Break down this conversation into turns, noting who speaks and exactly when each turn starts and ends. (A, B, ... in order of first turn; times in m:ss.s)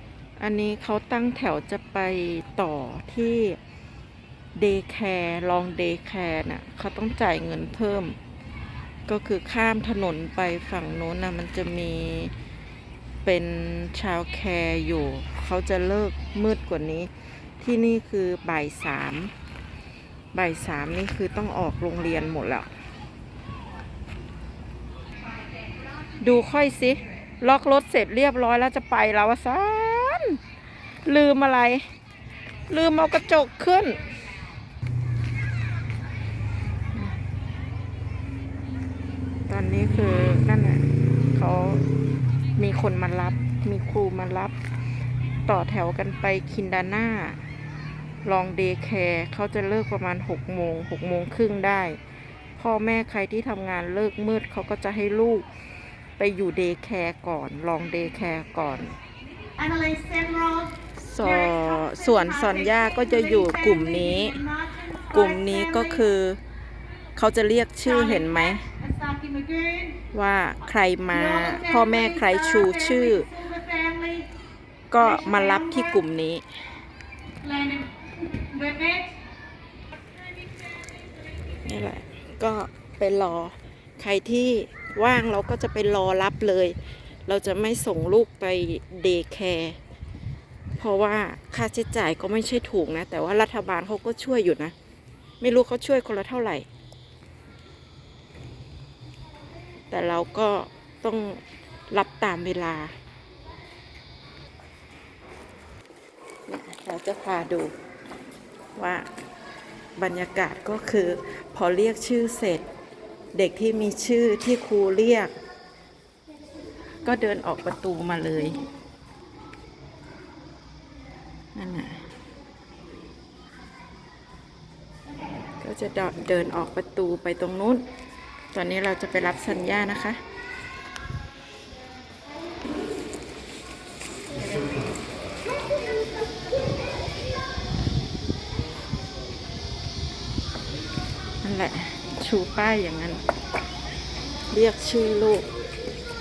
0:00.4-0:03.6 A
0:04.6-0:08.2 A
0:09.1-0:12.3 A
0:13.2-0:19.3 A
0:20.3-0:22.7 A
0:26.2-0:30.4 A
0:31.0-0:31.9 A
0:32.7-0:34.0 A
0:39.5-0:41.8 A
0:42.6-0:44.6 A
0:45.5-0:47.4 A
0:48.2-0:52.0 A
0:52.6-0:55.5 A
0:56.2-0:59.0 A
0:59.6-1:00.7 B
1:01.0-1:06.4 A
1:07.2-1:08.7 A
1:09.0-1:09.9 B
1:10.1-1:13.4 A
1:13.4-1:14.2 B
1:14.9-1:16.4 A
1:17.5-1:19.1 B
1:21.6-1:26.8 A
1:27.3-1:29.8 A
1:30.8-1:34.7 A
1:35.4-1:36.7 A
1:39.9-1:42.9 A
1:46.5-1:47.7 A
1:48.8-1:49.1 A
1:50.0-1:52.7 A
1:53.3-1:55.3 A
1:57.0-1:58.6 A
2:01.6-2:02.0 A
2:05.6-2:07.8 A
2:08.5-2:10.2 A
2:21.4-2:23.2 A
2:24.5-2:25.5 A